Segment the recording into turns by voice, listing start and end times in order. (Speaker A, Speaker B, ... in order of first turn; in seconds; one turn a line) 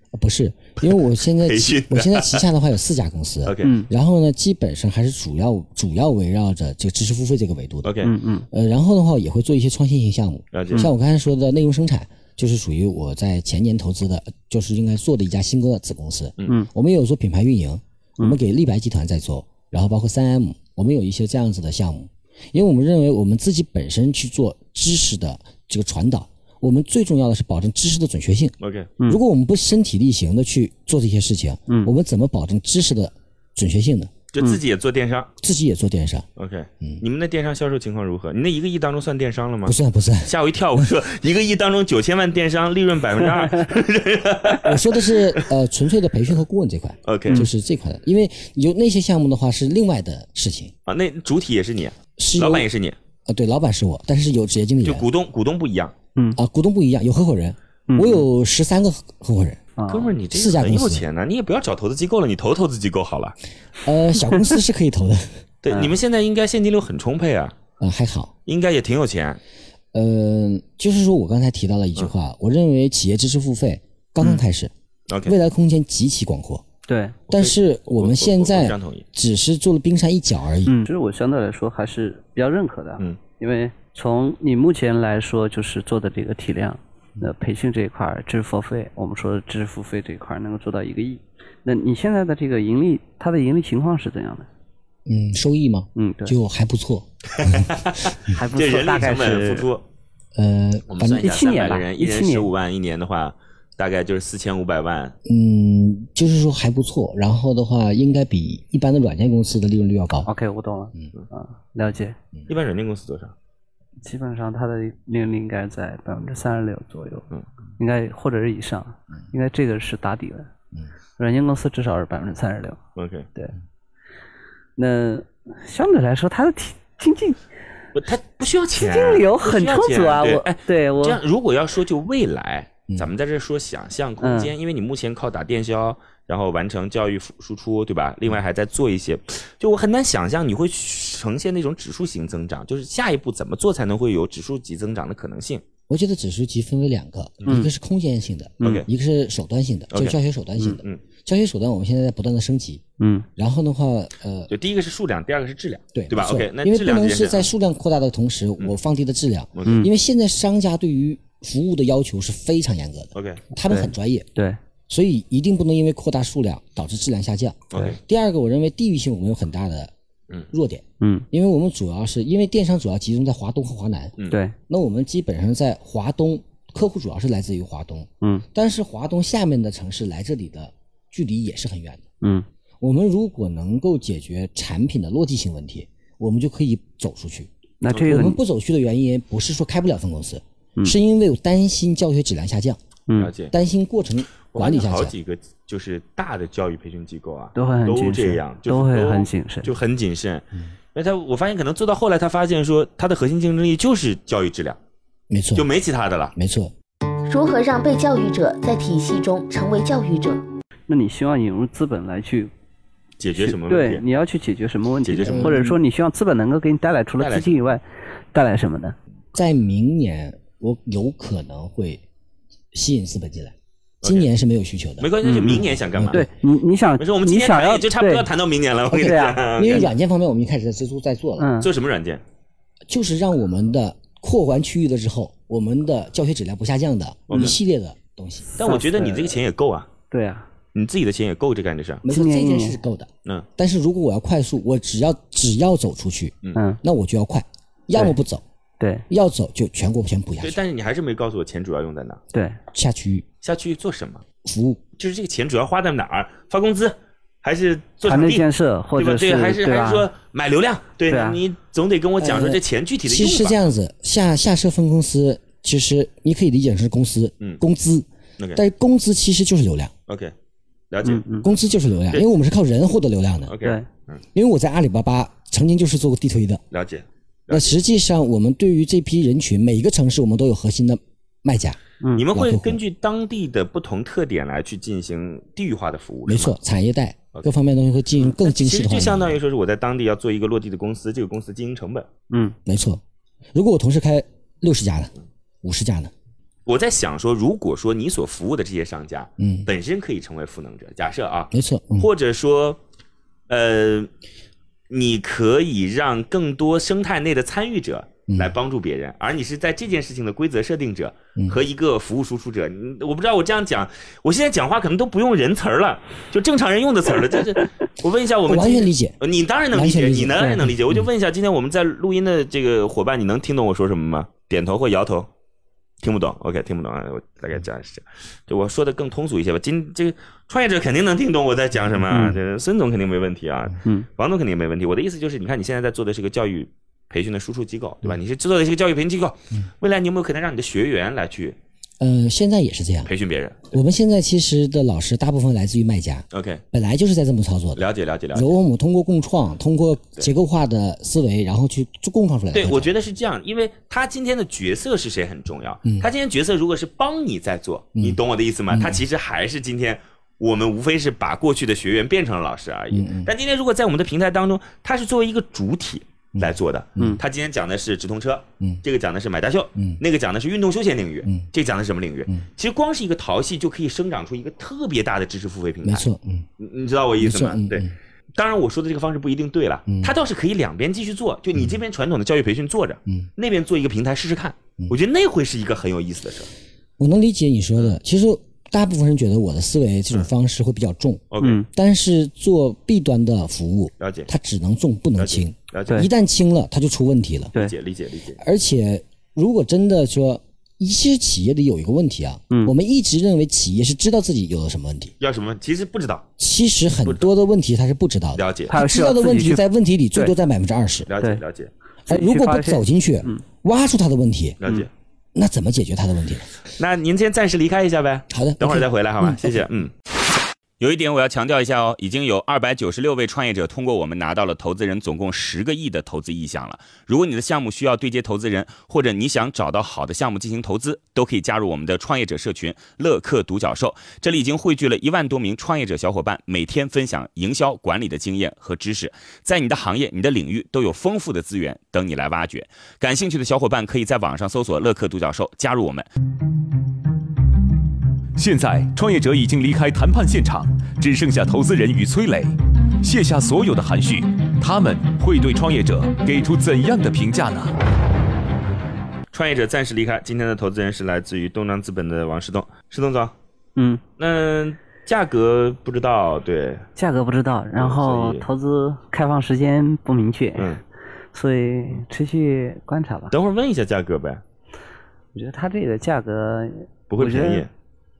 Speaker A: 0.1-28.6
Speaker B: 0.8-2.4
Speaker B: 3.5-3.7
Speaker C: 3.6-3.9
Speaker B: 7.8-8.1
Speaker C: 8.0-8.4
Speaker B: 10.5-10.9
Speaker B: 28.6-28.9
Speaker A: 29.1-34.1
Speaker B: 34.3-35.3
Speaker A: 35.4-36.2
Speaker B: 36.4-45.5
Speaker A: 39.6-40.3
Speaker A: 44.6-50.7
Speaker B: 47.0-47.4
Speaker B: 50.9-53.0
Speaker A: 52.2-52.7
Speaker A: 53.2-55.0
Speaker B: 54.8-55.9
Speaker A: 56.3-59.6
Speaker C: 57.9-58.2
Speaker C: 59.8-60.1
Speaker B: 59.9-63.4
Speaker A: 60.3-61.0
Speaker A: 63.8-65.4
Speaker B: 65.6-67.6
Speaker A: 67.8-68.3
Speaker B: 68.5-69.4
Speaker A: 69.9-74.7
Speaker B: 75.1-75.3
Speaker A: 75.2-76.6
Speaker C: 76.9-77.2
Speaker B: 77.3-79.0
Speaker A: 77.3-80.8
Speaker C: 80.7-94.5
Speaker A: 95.0-97.7
Speaker C: 95.9-96.3
Speaker B: 97.4-99.8
Speaker C: 98.3-99.7
Speaker A: 100.3-101.4
Speaker B: 100.9-105.1
Speaker C: 101.2-102.5
Speaker A: 105.2-110.3
Speaker C: 110.2-112.2
Speaker B: 112.5-113.3
Speaker C: 114.0-117.3
Speaker C: 117.8-120.5
Speaker C: 121.2-122.8
Speaker B: 123.0-123.3
Speaker C: 124.8-127.4
Speaker B: 127.9-145.6
Speaker C: 128.7-131.2
Speaker C: 134.2-134.5
Speaker A: 145.9-152.8
Speaker B: 148.6-148.9
Speaker B: 149.9-151.0
Speaker C: 153.0-153.3
Speaker A: 153.4-154.5
Speaker B: 154.5-157.5
Speaker A: 155.9-164.3
Speaker B: 159.5-159.8
Speaker B: 163.1-163.4
Speaker C: 163.7-164.6
Speaker A: 164.9-169.9
Speaker B: 167.7-168.0
Speaker A: 170.5-182.0
Speaker C: 171.0-171.2
Speaker C: 174.3-174.5
Speaker A: 182.8-192.8
Speaker C: 187.8-188.4
Speaker B: 193.2-193.5
Speaker A: 193.5-195.1
Speaker B: 194.5-204.8
Speaker C: 197.5-199.7
Speaker A: 205.3-205.7
Speaker B: 205.5-206.3
Speaker A: 206.3-206.7
Speaker D: 207.3-210.4
Speaker C: 210.9-212.5
Speaker B: 213.2-214.0
Speaker C: 213.4-218.9
Speaker B: 215.0-215.6
Speaker A: 215.2-215.8
Speaker B: 217.2-217.6
Speaker A: 219.3-222.0
Speaker A: 222.7-226.2
Speaker B: 224.0-224.3
Speaker B: 225.0-226.2
Speaker C: 225.2-228.3
Speaker B: 227.0-229.9
Speaker A: 228.9-231.5
Speaker C: 228.9-229.9
Speaker C: 231.4-231.7
Speaker B: 231.6-232.2
Speaker A: 232.9-238.6
Speaker B: 237.3-237.6
Speaker B: 238.6-239.9
Speaker C: 238.6-239.3
Speaker C: 240.1-240.5
Speaker B: 240.7-242.0
Speaker A: 242.0-248.4
Speaker C: 242.1-242.8
Speaker C: 248.8-249.0
Speaker A: 249.1-250.6
Speaker B: 250.4-252.2
Speaker C: 252.3-252.6
Speaker A: 252.7-253.2
Speaker B: 253.4-254.2
Speaker A: 254.4-254.8
Speaker B: 255.0-263.6
Speaker C: 258.0-260.1
Speaker C: 261.1-261.4
Speaker A: 262.2-269.9
Speaker B: 270.1-270.3
Speaker B: 270.9-271.2
Speaker C: 271.0-271.5
Speaker A: 271.4-273.6
Speaker B: 273.5-274.2
Speaker A: 274.3-276.6
Speaker B: 276.7-277.7
Speaker A: 277.5-281.8
Speaker B: 282.1-286.6
Speaker A: 282.3-282.8
Speaker A: 286.3-289.4
Speaker B: 288.2-292.1
Speaker C: 292.3-292.6
Speaker A: 292.6-293.0
Speaker A: 293.5-295.1
Speaker A: 295.6-296.1
Speaker B: 296.6-302.8
Speaker A: 299.4-299.7
Speaker A: 301.5-302.1
Speaker B: 303.5-304.1
Speaker B: 304.9-325.3
Speaker A: 308.3-308.6
Speaker A: 318.5-319.1
Speaker A: 319.7-320.7
Speaker C: 320.4-320.7
Speaker B: 326.0-341.6
Speaker C: 332.1-332.4
Speaker A: 342.0-343.1
Speaker B: 343.1-343.8
Speaker A: 343.7-347.8
Speaker B: 346.3-346.6
Speaker B: 347.8-348.5
Speaker A: 348.3-352.9
Speaker B: 352.5-376.0
Speaker A: 355.8-356.1
Speaker A: 357.9-359.0
Speaker A: 362.9-363.3
Speaker A: 366.4-367.2
Speaker A: 375.8-376.5
Speaker B: 376.6-386.5
Speaker A: 377.2-377.9
Speaker A: 379.9-380.1
Speaker A: 387.0-397.5
Speaker B: 391.3-391.6
Speaker B: 394.0-394.3
Speaker B: 395.2-396.1
Speaker B: 397.5-398.4
Speaker A: 398.4-405.1
Speaker B: 405.2-406.3
Speaker A: 406.4-411.1
Speaker B: 407.0-407.3
Speaker B: 408.3-408.7
Speaker C: 408.7-409.6
Speaker B: 411.1-411.7
Speaker A: 412.1-414.6
Speaker C: 412.1-413.4
Speaker B: 414.6-414.9
Speaker A: 415.3-416.5
Speaker B: 416.8-419.9
Speaker A: 418.3-419.6
Speaker B: 420.8-446.1
Speaker E: 448.4-457.7
Speaker B: 459.3-463.3
Speaker B: 464.2-466.8
Speaker C: 466.9-470.7
Speaker B: 467.8-468.4
Speaker C: 471.3-473.3
Speaker B: 473.3-474.4
Speaker C: 475.3-477.6
Speaker B: 477.1-477.7